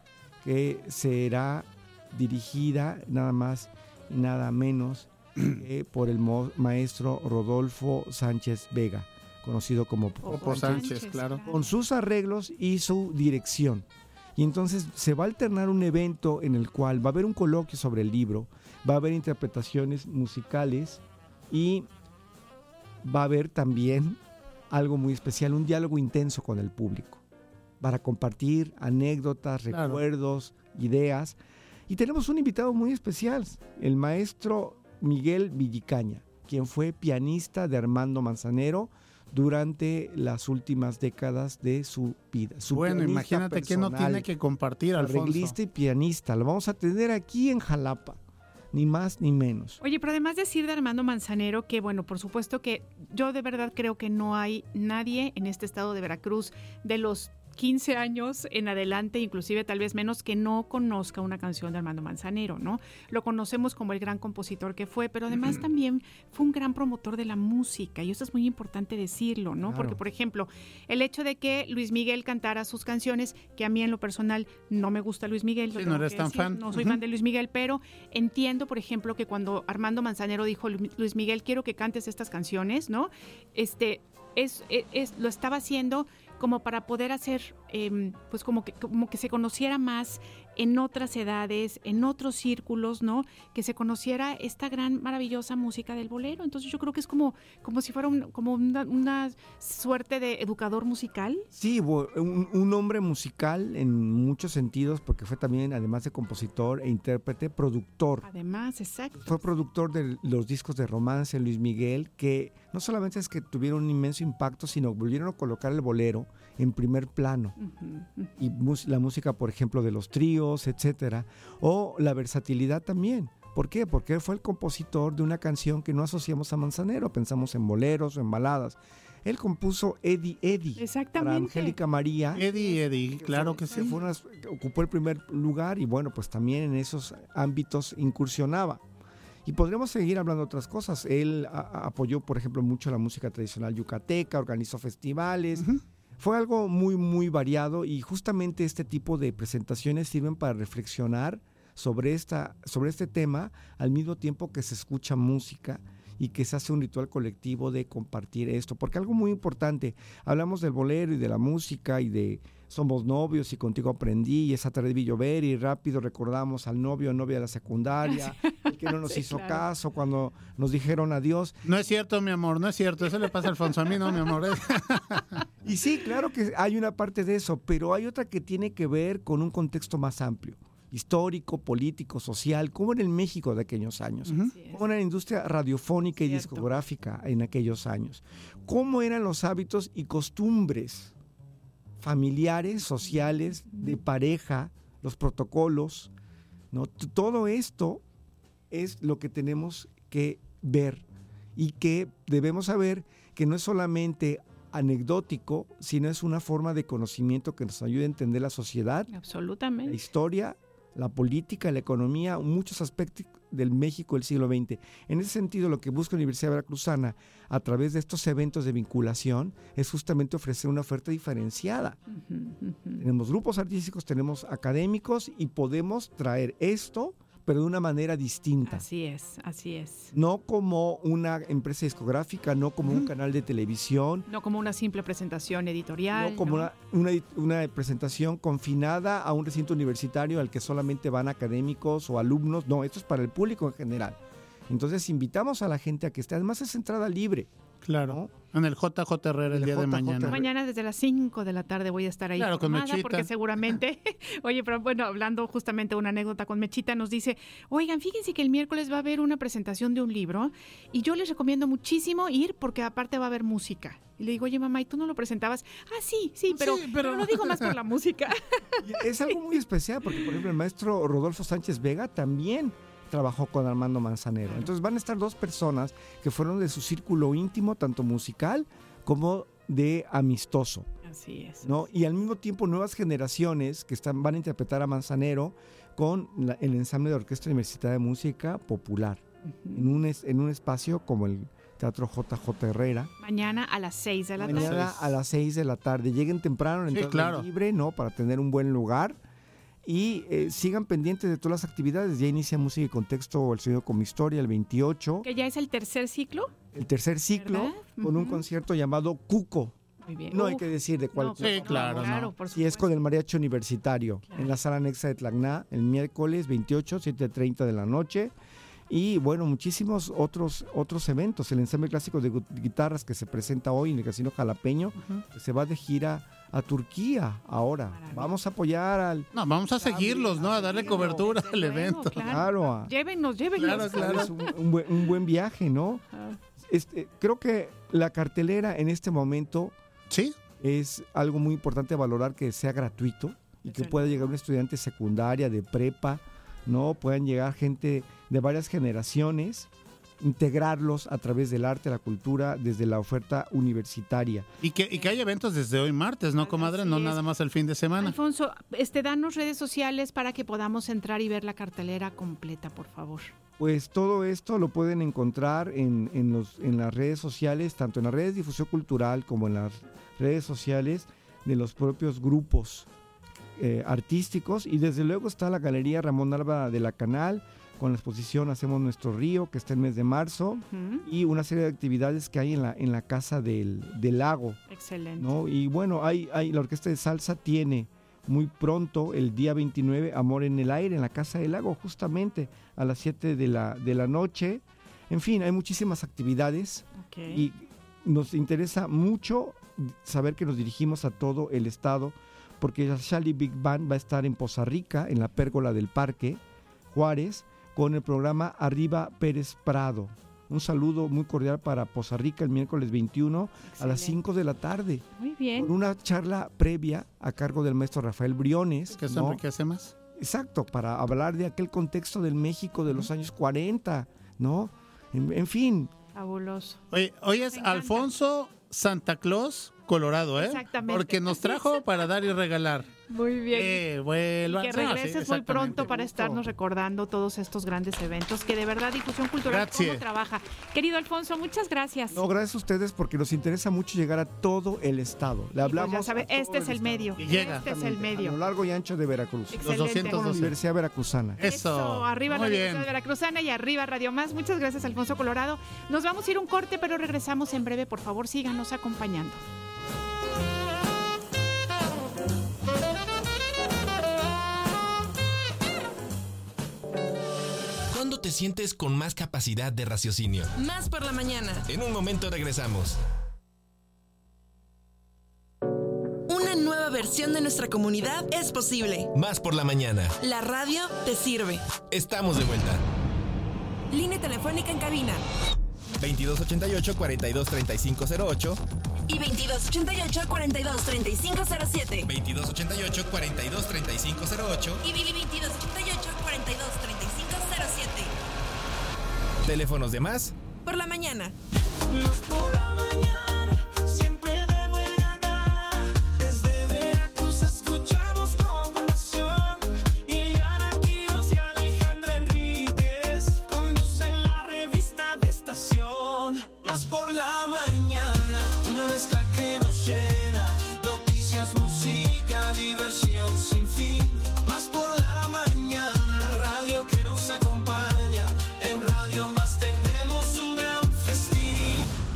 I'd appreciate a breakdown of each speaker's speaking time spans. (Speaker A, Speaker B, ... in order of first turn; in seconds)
Speaker A: 0.4-10.9, 11.4-13.8, 14.4-21.9, 23.0-24.2, 24.7-27.2, 27.8-31.4, 31.9-44.2, 45.0-48.2, 48.7-49.8, 69.7-70.0, 101.5-108.3, 109.2-117.6, 118.4-132.5, 133.1-138.8, 139.4-145.7, 146.2-171.6, 175.7-191.1, 192.0-196.1, 196.7-198.0, 198.7-201.0, 201.6-209.1, 209.8-222.0, 223.0-228.9, 230.1-234.3, 236.1-244.2, 244.7-248.3, 249.5-250.4, 268.8-280.9, 281.6-293.1, 294.4-299.2, 299.8-305.3, 306.7-309.8, 310.3-318.3, 318.9-329.3, 329.8-331.3, 332.1-332.9, 333.6-336.1, 336.6-339.8, 340.6-349.7, 350.2-354.5, 363.6-372.9, 373.6-384.6, 385.2-406.4, 406.9-415.1, 415.6-419.4, 420.2-425.9, 435.8-436.4, 442.1-451.4
Speaker B: 10.2-11.6, 49.8-101.5, 108.2-109.4, 117.6-118.3, 130.8-131.8, 168.1-169.7, 184.5-184.8, 186.2-186.7, 193.7-194.0, 209.1-210.0, 222.1-223.0, 228.7-230.1, 234.3-236.7, 250.2-268.4, 274.5-274.7, 281.1-281.7, 289.5-289.9, 293.2-295.1, 305.2-306.5, 307.4-308.4, 310.0-313.0, 314.3-314.5, 327.9-328.3, 329.8-334.5, 343.6-344.3, 356.4-357.2, 358.0-363.3, 380.6-381.1, 384.7-385.3, 397.0-397.5, 413.6-414.2, 415.2-415.7, 426.1-426.8, 427.5-428.1, 430.4-431.8, 433.1-433.8, 434.4-442.2, 445.6-448.4, 449.5-450.3, 451.4-459.4
Speaker C: 10.3-11.4, 29.7-30.0, 42.7-45.6, 75.8-77.0, 132.4-134.0, 171.7-175.4, 247.8-250.4, 252.4-253.3, 266.5-267.8, 294.6-294.8, 296.9-297.5, 311.4-312.2, 325.0-325.2, 329.3-332.2, 333.6-334.3, 340.1-340.4, 354.6-358.2, 419.0-419.9, 426.9-436.0, 439.4-440.0, 447.2-447.7, 449.6-450.6, 451.4-452.9
Speaker D: 467.9-470.5, 471.7-473.0, 479.1-480.1, 481.9-482.8, 486.0-488.6, 492.1-494.8, 499.4-500.3
Speaker E: 470.6-471.6, 476.3-479.1, 480.2-481.7, 483.9-485.2, 489.1-492.1, 494.8-498.1, 500.6-501.3
Speaker F: 501.9-531.9